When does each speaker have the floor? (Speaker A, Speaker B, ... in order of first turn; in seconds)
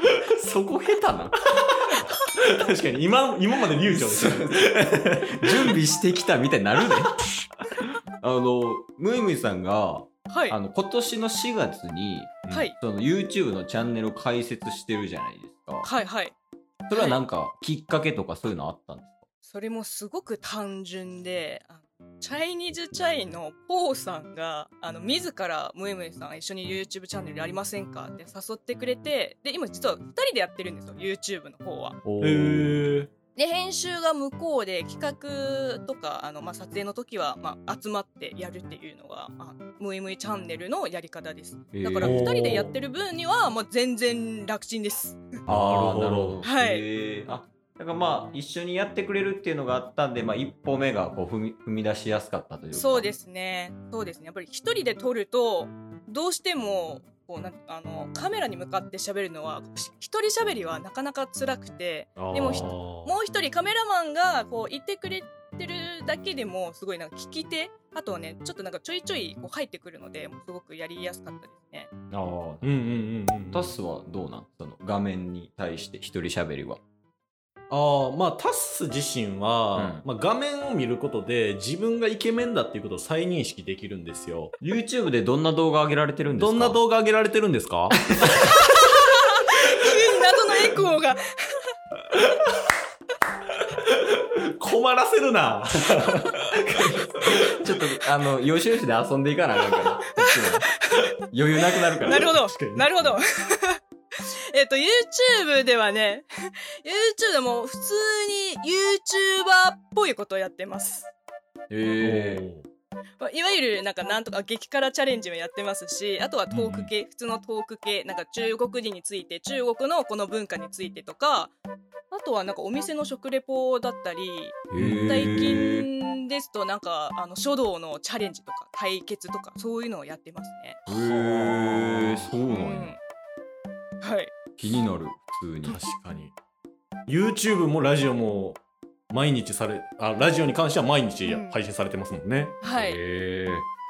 Speaker A: 0.4-1.4, 3.9-7.2, 8.2-15.9, 16.9-19.3, 32.0-32.8, 41.7-42.6, 45.5-53.1, 72.1-72.7, 73.5-76.8, 79.8-80.0, 84.6-86.8, 88.1-88.5, 96.7-100.7, 101.3-102.3, 111.7-112.5, 124.7-125.9, 130.9-132.9, 134.6-135.8, 142.8-143.7
Speaker B: 1.5-5.8, 32.2-33.1, 42.0-42.7, 45.5-46.4, 62.2-63.1, 72.6-73.7, 77.7-84.5, 86.4-88.0, 92.1-92.5, 93.7-97.8, 102.1-102.9, 112.0-112.7, 116.5-116.9, 124.8-125.6, 130.9-132.3, 135.6-136.3, 137.1-142.6
Speaker C: 10.3-10.6, 12.5-12.8, 15.8-16.4, 16.9-17.2, 19.4-32.0, 33.4-45.3, 46.4-46.8, 52.7-71.9, 88.4-91.7, 100.2-111.1, 113.2-121.5, 122.1-130.8, 132.5-133.0, 134.0-134.3, 141.2-141.6, 142.6-143.0